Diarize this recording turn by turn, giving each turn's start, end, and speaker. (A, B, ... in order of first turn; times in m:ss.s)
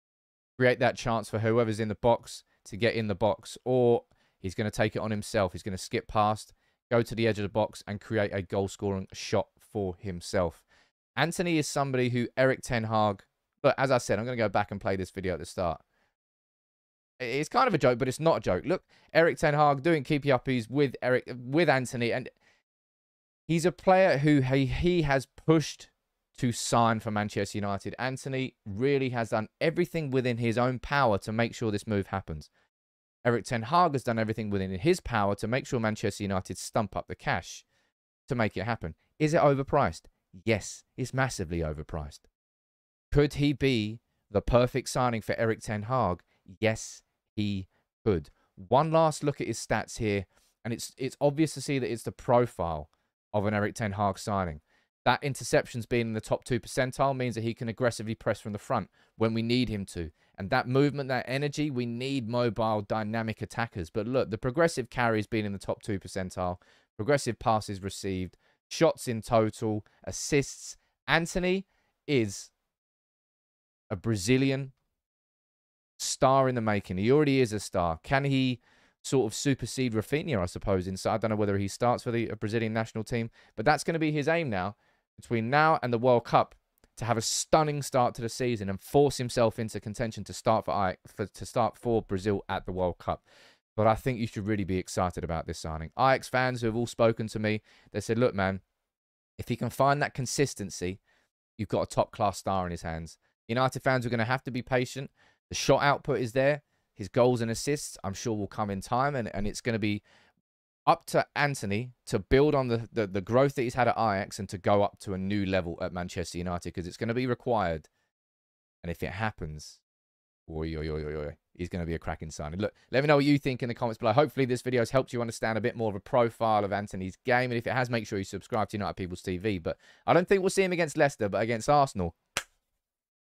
0:00.6-0:10.6 A
0:11.2-0:15.8 A
0:17.2-0:22.3 A
0:23.5-0:32.5 A
0:33.2-0:37.6 A
0:38.3-0:42.2 A
0:43.1-1:12.5 A
1:13.9-1:14.7 A
1:16.0-1:33.2 A
1:33.8-1:38.6 A
1:39.4-1:41.0 A
1:41.6-1:50.0 A
1:50.9-1:57.9 A
1:58.8-1:59.8 A
2:00.5-2:12.2 A